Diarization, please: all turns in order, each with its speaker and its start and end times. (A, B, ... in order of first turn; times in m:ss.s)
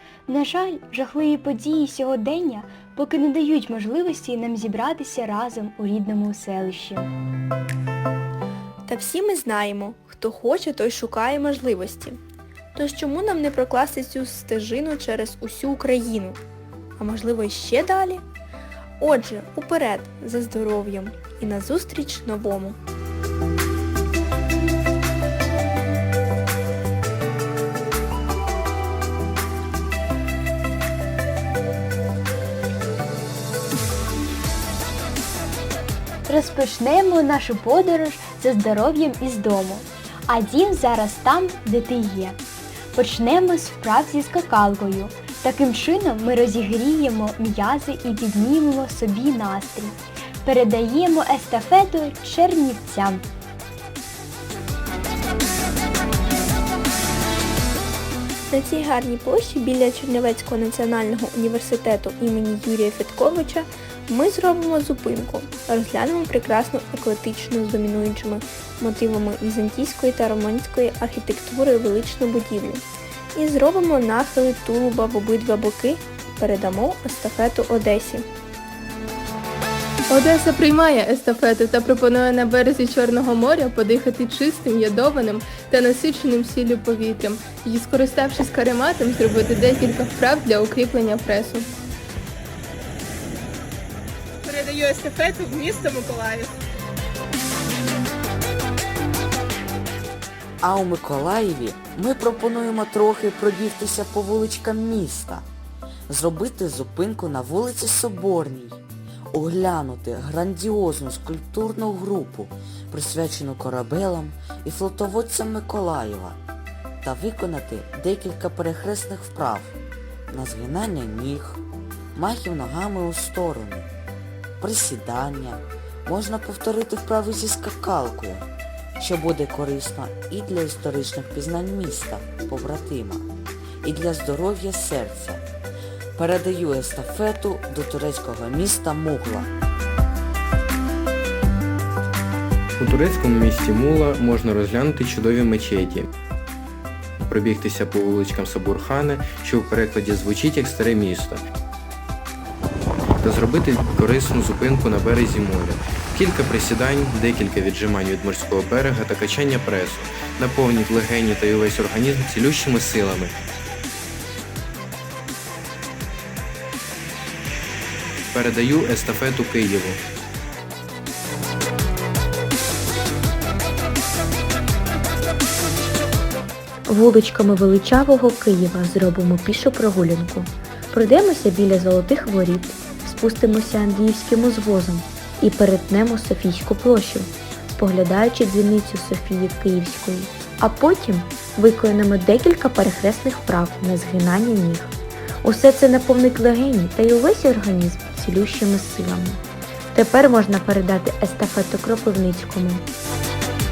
0:00.3-0:07.1 A
0:08.9-0:12.2 B
0:12.8-0:16.4 B
0:17.0-0:18.2 B
0:19.0-0:22.8 B
0:36.3-0:42.4 A
0:42.9-0:53.3 A
0:58.5-1:12.8 B
1:13.4-1:18.3 B
1:20.1-1:31.7 C
1:34.4-1:36.5 D
1:40.6-1:45.5 E
1:46.1-1:48.8 E
1:49.3-1:56.4 E
1:57.0-1:59.8 E
2:00.3-2:01.6 E
2:02.2-2:03.9 E
2:04.6-2:08.4 E
2:09.0-2:13.3 E
2:13.8-2:15.4 E
2:16.2-2:19.5 E
2:22.8-2:26.1 F
2:27.3-2:31.4 F
2:33.2-2:43.3 F
2:48.3-2:50.0 F
2:56.9-3:19.4 G
3:19.9-3:22.8 G